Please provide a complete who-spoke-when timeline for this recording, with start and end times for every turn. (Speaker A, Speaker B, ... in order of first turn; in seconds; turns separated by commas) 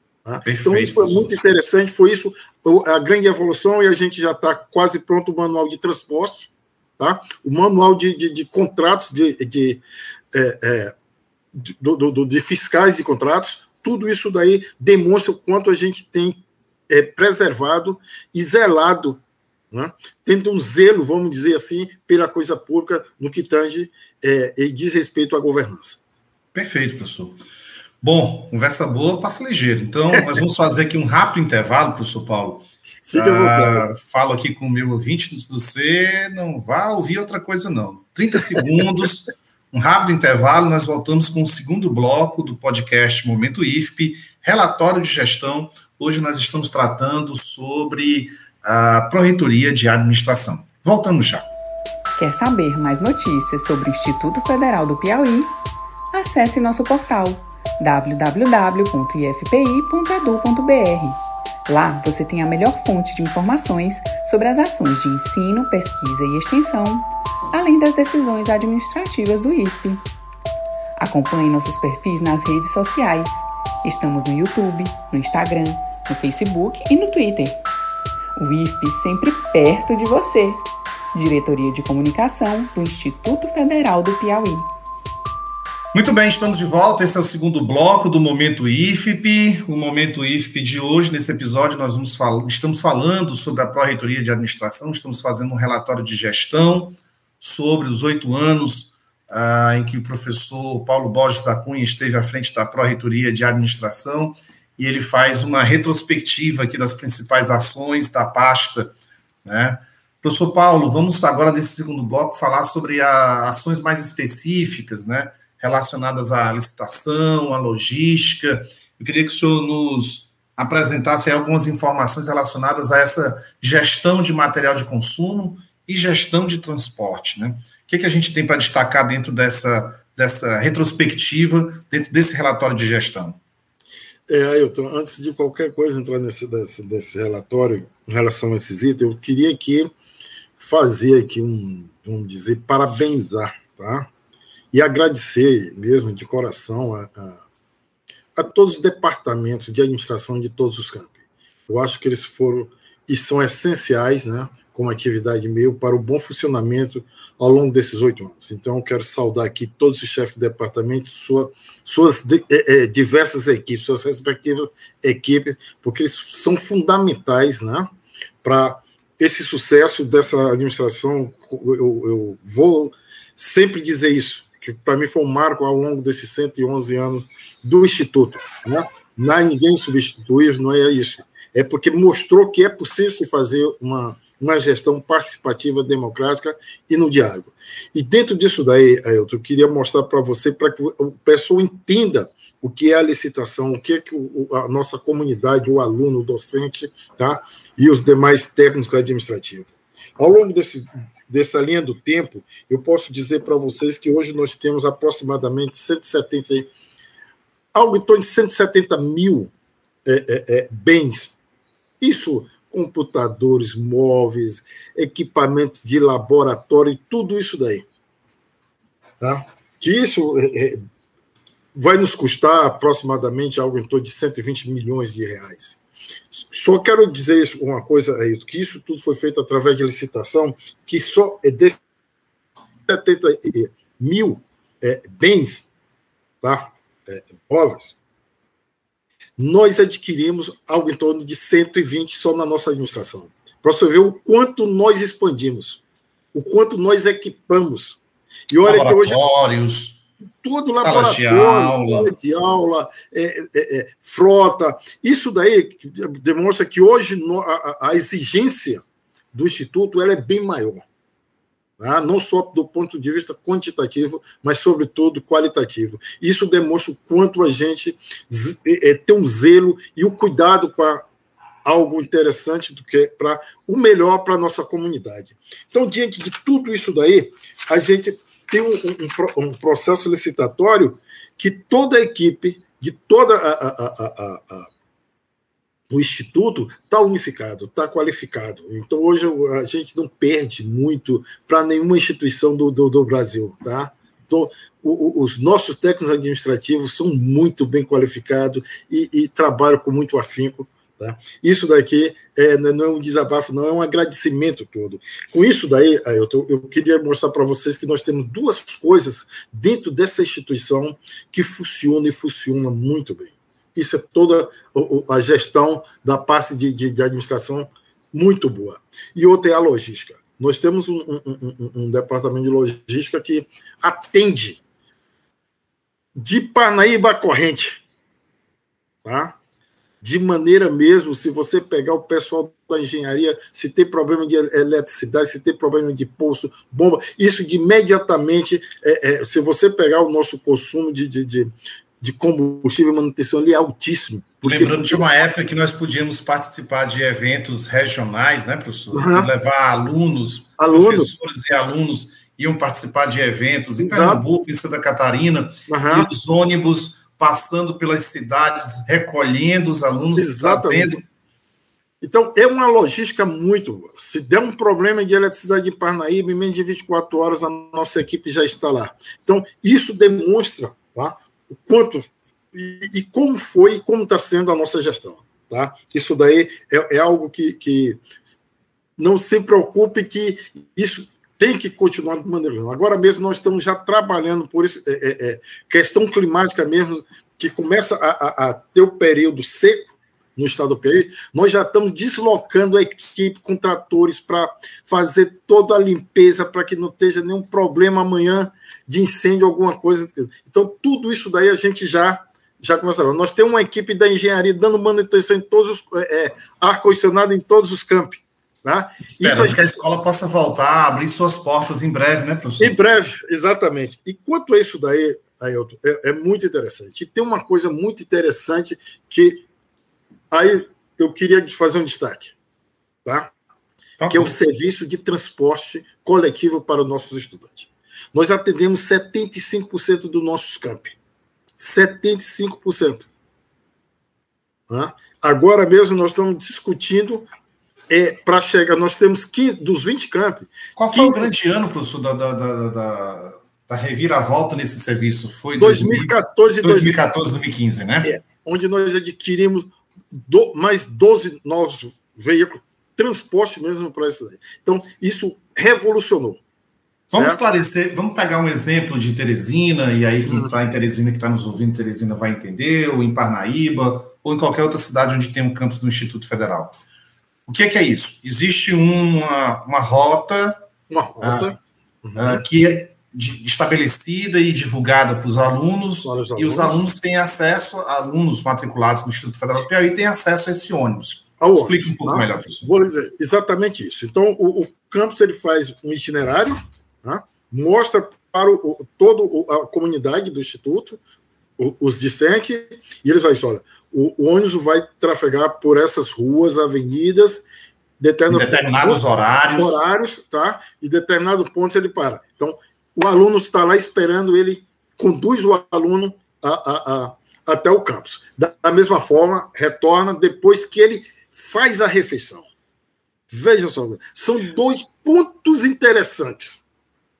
Speaker A: 0.2-9.8, Speaker B: 0.5-1.3, Speaker A: 10.3-10.9, Speaker A: 11.6-19.2, Speaker A: 19.7-26.0, Speaker B: 26.5-27.4, Speaker B: 28.0-51.5, Speaker A: 33.1-33.9, Speaker C: 52.2-55.5, Speaker C: 56.1-70.0, Speaker C: 71.0-77.6, Speaker C: 78.4-80.6, Speaker C: 81.1-84.7, Speaker B: 85.9-108.9, Speaker B: 109.5-133.4, Speaker A: 134.3-139.9, Speaker A: 140.6-144.1, Speaker A: 144.7-147.4, Speaker A: 148.3-151.2, Speaker A: 151.7-167.9, Speaker A: 168.4-206.7, Speaker A: 207.7-209.5, Speaker A: 210.1-211.4, Speaker A: 212.0-217.8, Speaker A: 219.2-220.8, Speaker A: 221.8-225.8, Speaker A: 226.3-231.8, Speaker A: 232.9-235.7, Speaker A: 236.4-238.0, Speaker A: 239.4-245.8, Speaker A: 246.3-248.0, Speaker A: 248.5-249.2, Speaker B: 248.6-250.0, Speaker A: 250.4-258.8, Speaker B: 250.8-252.2, Speaker A: 259.3-260.9, Speaker A: 261.8-271.1, Speaker A: 271.6-284.7, Speaker A: 285.9-324.6, Speaker A: 326.2-327.8, Speaker A: 329.1-329.4, Speaker A: 330.0-345.2, Speaker B: 344.4-361.0, Speaker A: 348.9-349.3, Speaker A: 350.6-351.1, Speaker A: 353.8-354.2, Speaker A: 355.7-356.1, Speaker A: 360.2-361.0, Speaker A: 362.0-378.0, Speaker A: 379.0-409.7, Speaker B: 409.0-412.8, Speaker A: 412.6-419.4, Speaker A: 420.3-422.3, Speaker A: 423.1-423.3, Speaker B: 424.0-424.4, Speaker A: 424.1-431.0, Speaker A: 431.6-433.1, Speaker A: 434.7-437.3, Speaker A: 437.9-441.3, Speaker B: 440.8-448.1, Speaker A: 445.6-447.0, Speaker A: 448.0-456.4, Speaker B: 457.1-466.8, Speaker A: 457.1-457.4, Speaker A: 460.3-460.5, Speaker B: 467.5-470.6, Speaker A: 470.9-472.4, Speaker B: 471.2-471.5, Speaker B: 472.2-482.7, Speaker A: 476.0-476.8, Speaker A: 481.4-491.0, Speaker A: 491.6-497.4, Speaker A: 498.0-512.5, Speaker B: 498.3-499.8, Speaker A: 513.3-516.6